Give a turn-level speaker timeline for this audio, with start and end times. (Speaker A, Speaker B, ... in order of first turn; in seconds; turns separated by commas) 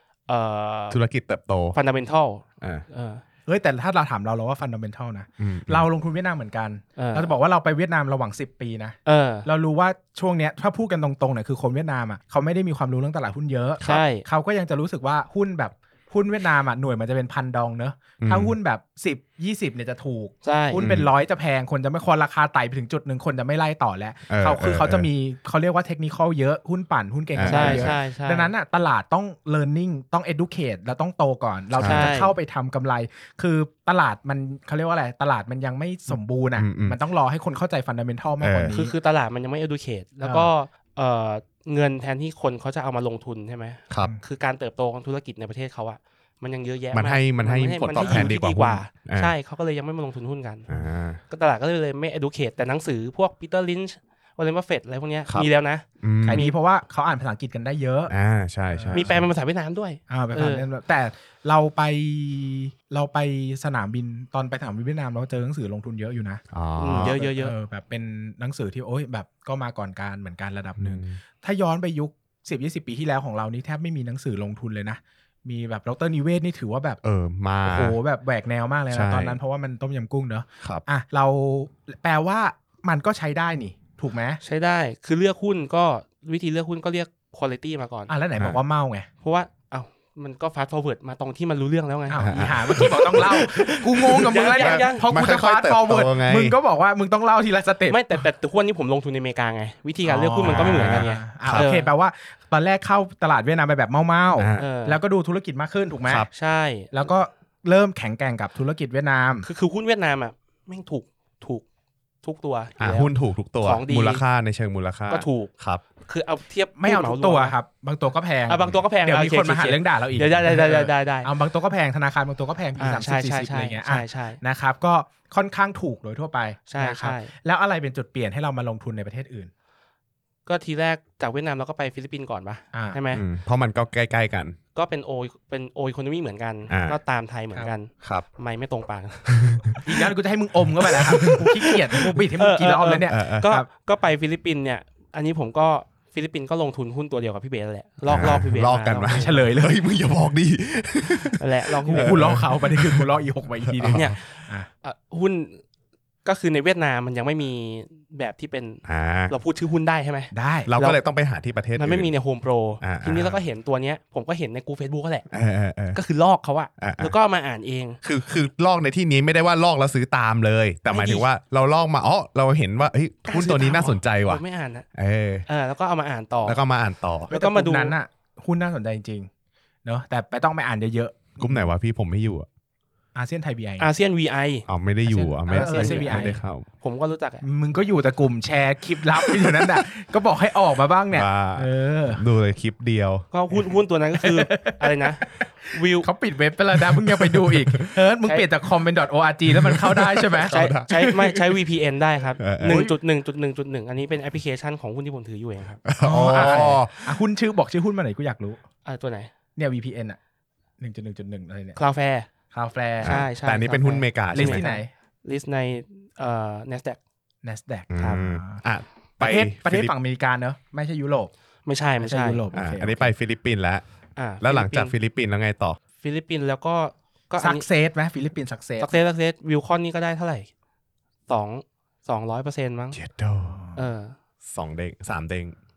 Speaker A: 0.3-1.0, Speaker B: 0.9-1.8, Speaker A: 1.7-3.2, Speaker C: 3.5-39.0, Speaker B: 5.4-5.9, Speaker A: 7.0-7.3, Speaker A: 9.1-9.5, Speaker A: 13.8-14.2, Speaker B: 18.2-18.5, Speaker A: 20.4-20.9, Speaker B: 20.8-21.1, Speaker B: 24.3-25.1, Speaker B: 27.3-28.0, Speaker A: 27.4-28.5, Speaker B: 31.7-32.1, Speaker A: 31.8-32.3, Speaker B: 36.5-37.0, Speaker B: 38.4-38.8, Speaker A: 38.7-50.7, Speaker C: 40.2-40.5, Speaker B: 46.9-49.3, Speaker C: 48.0-48.3, Speaker B: 50.7-51.2, Speaker A: 51.2-56.5, Speaker B: 56.0-56.4, Speaker C: 56.2-58.1, Speaker B: 58.1-59.1, Speaker C: 58.7-59.3, Speaker A: 58.9-60.6, Speaker C: 60.1-66.4, Speaker B: 66.5-67.2, Speaker A: 66.8-67.5, Speaker C: 67.0-77.0, Speaker B: 70.8-71.2, Speaker B: 77.0-78.0, Speaker C: 77.6-84.4, Speaker B: 78.9-79.4, Speaker A: 84.4-88.1, Speaker C: 88.1-89.1, Speaker A: 89.2-95.0, Speaker C: 92.1-98.2, Speaker B: 92.2-93.4, Speaker B: 94.0-96.5, Speaker A: 97.9-101.9, Speaker C: 100.0-106.3, Speaker B: 100.4-101.7, Speaker B: 104.4-104.7, Speaker A: 104.5-105.0, Speaker A: 106.3-106.9, Speaker C: 106.9-109.5, Speaker A: 109.4-111.6, Speaker A: 112.2-114.2, Speaker B: 112.8-115.8, Speaker A: 115.1-115.5, Speaker A: 116.0-117.5, Speaker C: 116.8-129.5, Speaker A: 118.5-121.3, Speaker A: 122.8-124.4, Speaker A: 126.7-127.3, Speaker A: 130.4-133.2, Speaker C: 132.7-133.0, Speaker B: 133.1-134.6, Speaker A: 134.7-139.8, Speaker B: 136.7-137.0, Speaker B: 138.0-138.2, Speaker C: 139.8-143.7, Speaker B: 140.8-142.2, Speaker A: 142.3-149.2, Speaker B: 143.1-143.5, Speaker B: 148.1-153.1, Speaker C: 149.1-149.8, Speaker A: 151.4-152.2, Speaker C: 151.9-154.7, Speaker B: 153.7-154.2, Speaker A: 153.9-155.6, Speaker A: 156.2-161.0, Speaker B: 158.8-159.3, Speaker C: 160.3-160.7, Speaker B: 160.7-162.1, Speaker A: 161.7-165.2, Speaker B: 162.8-163.4, Speaker B: 165.3-166.0, Speaker A: 165.9-168.0, Speaker B: 166.8-167.2, Speaker B: 168.0-174.4, Speaker A: 170.9-171.3, Speaker C: 173.3-173.9, Speaker A: 173.4-174.8, Speaker B: 174.9-175.5, Speaker A: 175.5-176.6, Speaker B: 176.4-177.3, Speaker C: 177.3-179.3, Speaker A: 177.3-177.9, Speaker C: 179.8-181.7, Speaker B: 181.4-182.5, Speaker C: 183.1-183.9, Speaker A: 183.8-187.4, Speaker B: 184.7-186.7, Speaker C: 185.2-186.4, Speaker C: 187.4-192.2, Speaker B: 191.1-193.2, Speaker A: 193.3-196.1, Speaker C: 193.5-201.5, Speaker B: 197.0-197.9, Speaker B: 199.5-200.9, Speaker A: 200.5-205.8, Speaker B: 202.4-202.8, Speaker C: 202.6-202.9, Speaker B: 205.8-207.2, Speaker C: 206.0-208.6, Speaker A: 208.8-209.3, Speaker C: 209.6-210.2, Speaker C: 210.8-211.8, Speaker A: 211.8-212.3, Speaker C: 212.5-213.2, Speaker B: 213.0-214.6, Speaker A: 213.0-217.0, Speaker C: 213.9-214.9, Speaker C: 217.4-218.6, Speaker B: 217.9-219.9, Speaker C: 219.2-221.3, Speaker A: 221.7-222.4, Speaker C: 222.0-223.1, Speaker B: 222.5-223.8, Speaker A: 224.2-224.9, Speaker B: 224.4-225.8, Speaker A: 226.0-227.7, Speaker C: 227.4-229.0, Speaker A: 228.8-230.5, Speaker A: 231.3-233.0, Speaker B: 232.9-233.6, Speaker C: 233.4-233.9, Speaker A: 233.8-234.1, Speaker B: 234.4-235.5